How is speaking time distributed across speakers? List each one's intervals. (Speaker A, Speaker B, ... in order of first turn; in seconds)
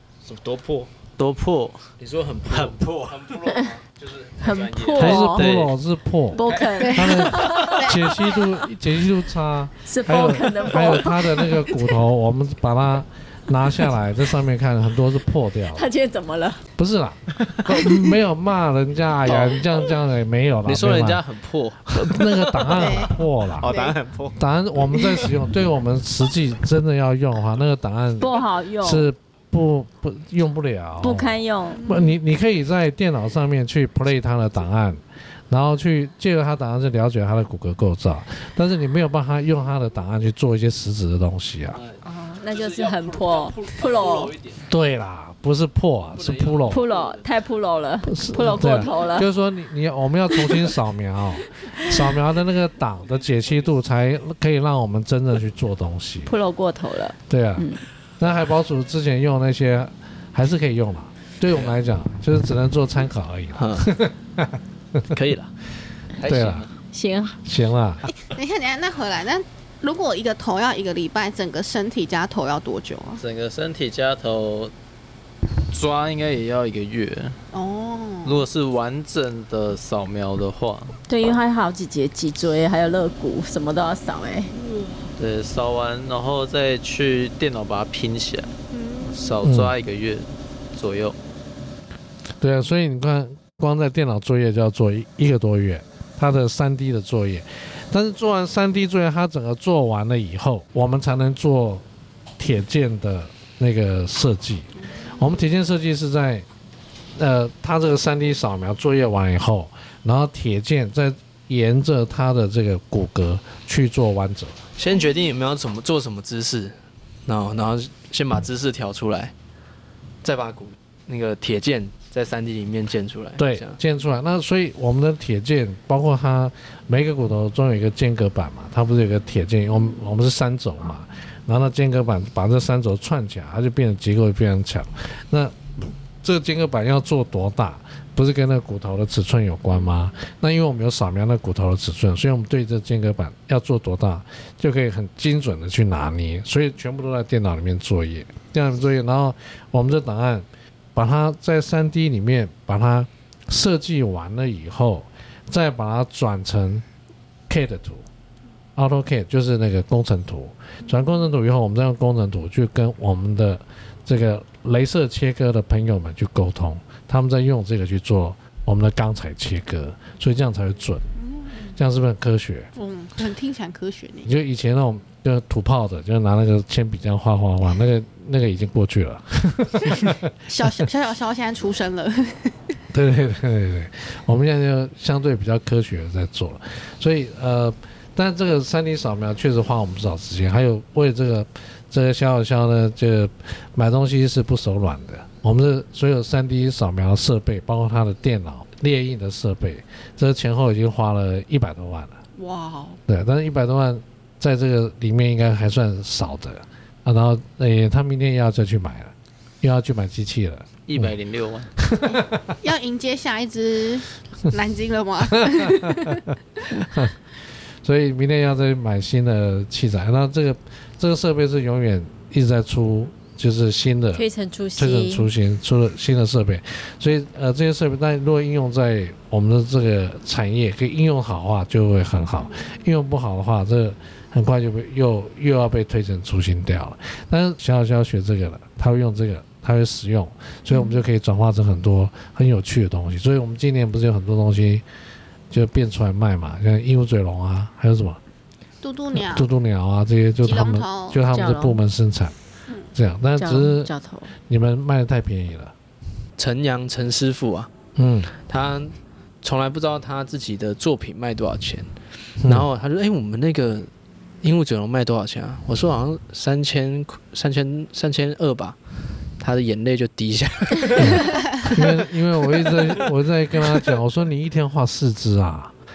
Speaker A: 0.2-0.9, 2.0-5.2, 19.3-19.6, 20.7-23.1, 23.6-24.4, 41.7-44.6, 46.2-47.3, 53.2-53.7, 63.6-63.9, 65.1-65.5, 114.8-119.3, 120.2-123.8, 256.4-257.7, 258.4-261.9, 262.4-263.9, 264.4-268.8, 269.4-271.9
Speaker B: 1.2-1.9, 2.5-3.1, 5.0-5.8, 66.2-66.7, 73.2-74.7, 75.7-77.4, 78.2-81.0, 85.2-88.5, 89.1-91.2, 210.9-211.7
Speaker C: 4.4-5.5, 6.3-8.1, 9.8-12.0, 15.7-16.7, 28.2-29.1, 31.0-31.9, 42.0-44.3, 46.7-49.3, 50.4-50.7, 56.3-57.9, 66.9-67.4, 81.1-84.5, 224.1-225.3, 251.3-251.8, 253.4-254.3
Speaker D: 5.0-15.9, 16.8-21.2, 21.9-23.7, 24.4-41.8, 44.7-46.8, 48.0-56.3, 57.3-65.1, 66.2-66.7, 67.4-68.1, 89.4-89.7, 92.4-101.8, 102.4-106.5, 107.2-114.6, 123.4-156.8, 157.5-158.1, 158.8-171.1, 171.7-172.7, 174.2-180.9, 182.9-202.2, 203.1-211.1, 211.8-212.6, 215.5-217.2, 217.8-224.2, 224.8-244.8, 245.5-248.2, 249.1-252.3, 252.9-253.9, 254.5-255.7, 258.0-258.3, 271.0-275.7
Speaker E: 6.8-8.4, 22.7-23.9, 31.7-32.2, 68.2-73.2, 77.5-78.5, 84.5-85.1, 88.7-89.4, 105.0-105.3, 171.2-171.7, 172.8-174.3, 179.9-182.8, 202.4-203.0, 212.6-216.3, 248.8-249.5, 250.4-251.2